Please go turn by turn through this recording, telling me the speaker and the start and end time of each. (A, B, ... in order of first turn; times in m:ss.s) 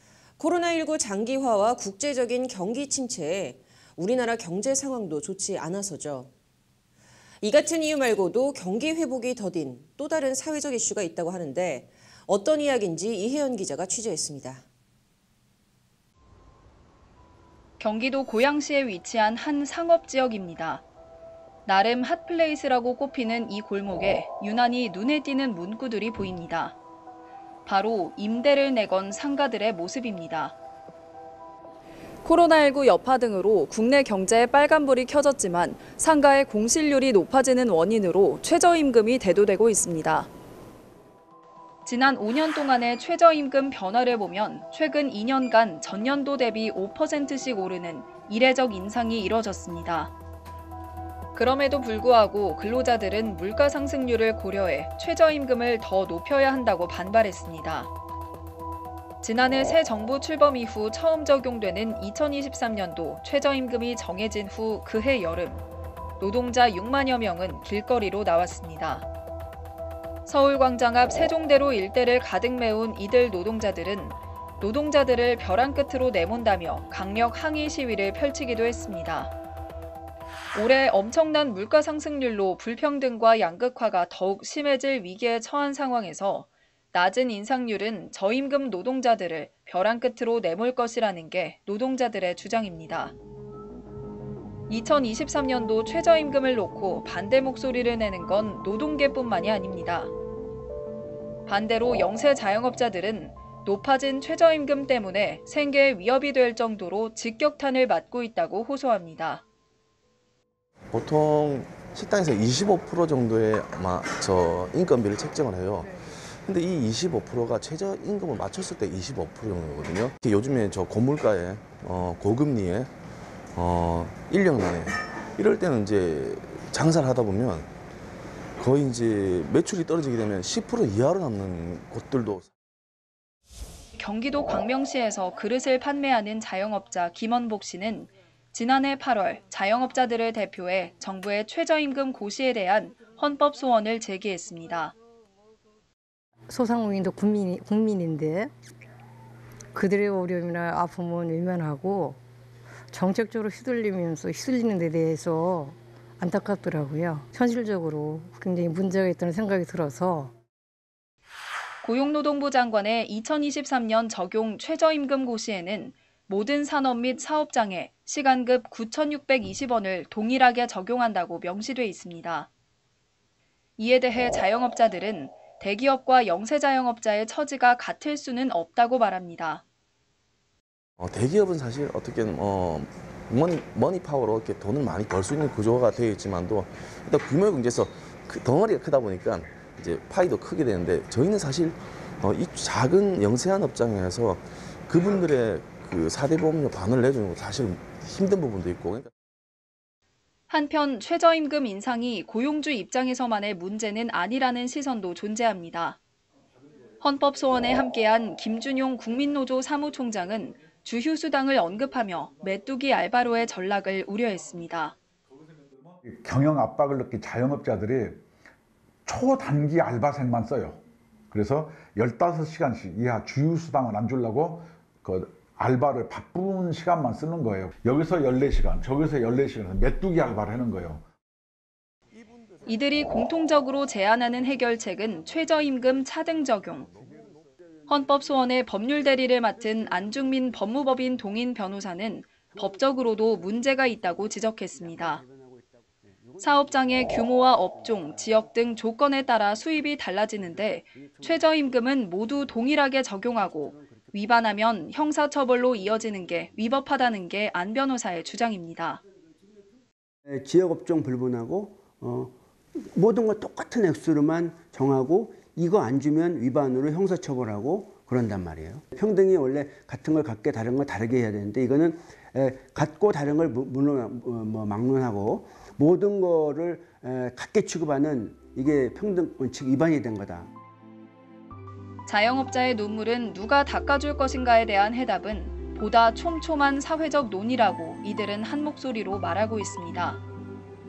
0:00.4-0:06.3 A
0:07.4-0:14.6 A
0:17.8-0:20.8 B
0:21.6-0:26.8 B
0:27.6-0:30.6 B
0:32.2-0:40.3 B
0:41.8-0:50.1 B
0:51.3-0:57.9 B
0:59.2-1:05.6 B
1:06.2-1:09.0 B
1:10.2-1:19.3 B
1:20.5-1:33.1 B
1:34.7-1:40.1 B
1:41.5-1:49.4 B
1:50.9-2:02.9 C
2:03.5-2:07.7 C
2:08.6-2:12.5 C
2:14.0-2:24.9 B
2:26.5-2:28.5 D
2:29.7-2:32.2 D
2:32.9-2:40.3 D
2:41.8-2:52.5 B
2:53.8-2:59.6 B
3:01.0-3:19.1 C
3:20.5-3:26.0 B
3:27.0-3:35.0 B
3:36.0-3:38.2 E
3:39.0-3:51.0 E
3:52.7-3:56.9 B
3:57.9-4:05.2 B
4:04.9-4:05.4 F
4:06.4-4:19.0 B
4:20.3-4:40.5 F
4:42.1-4:50.2 B